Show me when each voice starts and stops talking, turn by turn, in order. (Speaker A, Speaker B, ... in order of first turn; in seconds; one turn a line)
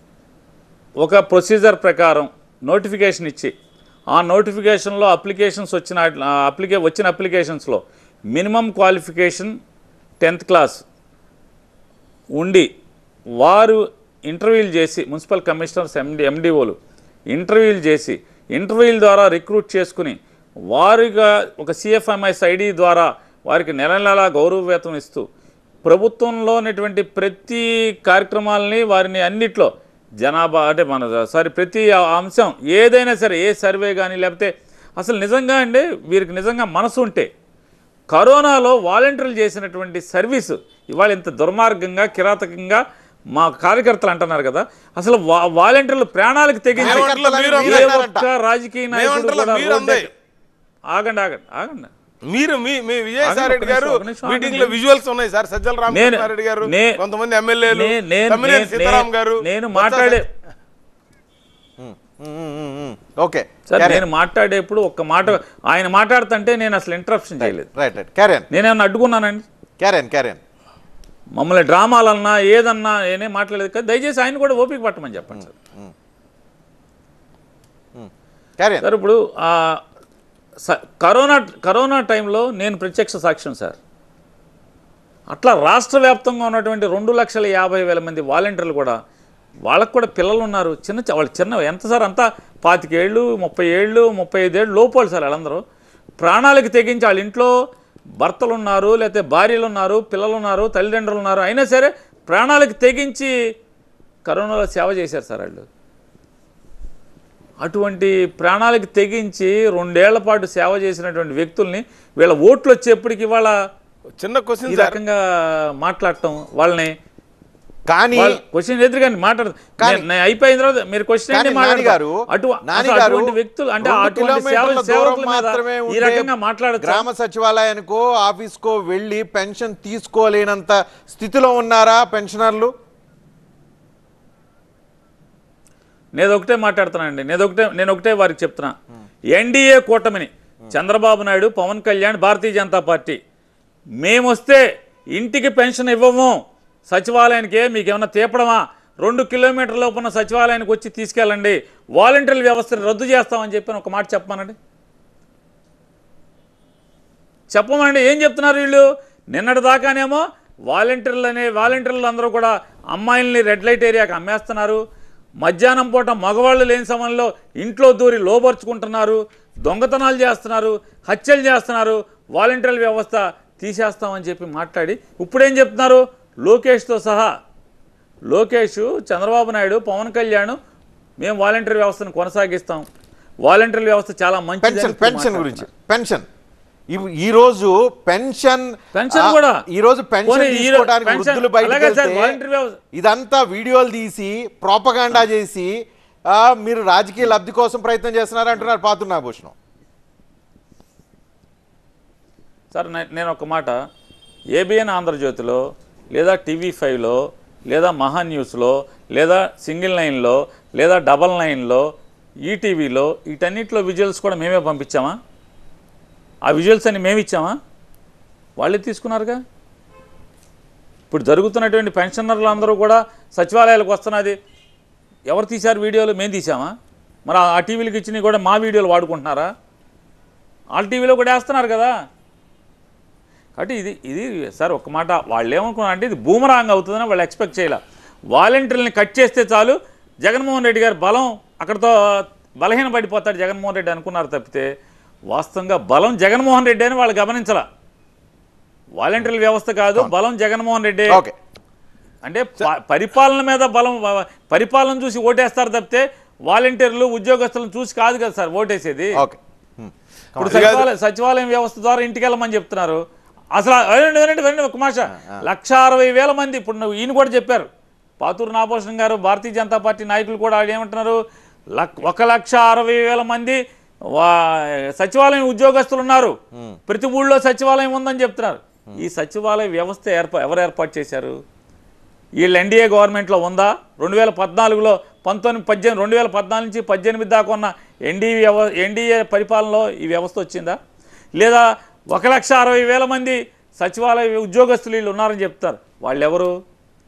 Speaker A: 1.0-3.5
Speaker A: 4.1-7.8
Speaker A: 8.3-9.5
Speaker A: 10.2-10.8
Speaker A: 12.4-12.7
Speaker A: 13.4-16.8
Speaker A: 17.3-20.2
Speaker A: 20.7-25.2
Speaker A: 25.8-29.7
Speaker A: 30.2-37.3
Speaker A: 38.1-42.8
Speaker A: 43.3-50.1
Speaker B: 46.8-47.9
Speaker C: 46.8-48.3
Speaker B: 48.9-50.1
Speaker A: 50.9-51.9
Speaker B: 52.3-60.2
Speaker A: 53.2-54.8
Speaker A: 55.9-57.0
Speaker A: 57.7-60.3
Speaker C: 61.8-64.0
Speaker A: 63.7-67.7
Speaker C: 67.4-68.5
Speaker A: 68.5-69.4
Speaker C: 69.8-70.4
Speaker A: 71.4-75.5
Speaker C: 75.3-75.9
Speaker C: 78.0-78.9
Speaker A: 78.8-79.8
Speaker A: 80.6-83.8
Speaker A: 85.3-89.0
Speaker A: 89.7-95.6
Speaker A: 96.2-97.5
Speaker A: 98.2-103.3
Speaker A: 104.2-105.7
Speaker A: 107.6-113.5
Speaker B: 114.2-115.0
Speaker A: 114.7-116.9
Speaker C: 117.9-118.4
Speaker A: 118.2-127.0
Speaker C: 119.8-120.1
Speaker C: 121.3-132.7
Speaker A: 136.2-138.7
Speaker A: 139.3-143.2
Speaker A: 144.0-144.6
Speaker A: 145.1-146.4
Speaker A: 146.9-154.6
Speaker A: 157.5-164.8
Speaker A: 165.4-177.3
Speaker A: 178.3-180.6
Speaker A: 181.2-182.9
Speaker A: 183.4-185.7
Speaker C: 184.6-186.2
Speaker C: 186.9-192.4
Speaker A: 188.9-189.6
Speaker A: 190.3-192.8
Speaker C: 192.9-195.7
Speaker C: 196.3-199.5
Speaker A: 202.7-203.8
Speaker A: 204.5-205.6
Speaker A: 206.1-211.8
Speaker A: 212.4-215.2
Speaker A: 216.4-217.6
Speaker A: 218.6-219.4
Speaker A: 221.1-224.3
Speaker A: 225.3-226.7
Speaker A: 227.3-229.5
Speaker A: 230.7-231.9
Speaker A: 233.6-237.8
Speaker A: 238.3-244.7
Speaker A: 245.3-247.7
Speaker A: 249.0-251.2
Speaker C: 251.1-251.3
Speaker A: 252.2-259.1
Speaker C: 259.2-260.8
Speaker A: 260.4-263.0
Speaker B: 260.4-260.9
Speaker A: 263.6-267.7
Speaker C: 265.2-265.4
Speaker A: 268.2-271.2
Speaker A: 271.8-273.6
Speaker A: 274.1-276.4
Speaker C: 276.5-276.8
Speaker A: 276.9-281.4
Speaker A: 282.4-290.8
Speaker A: 291.4-296.5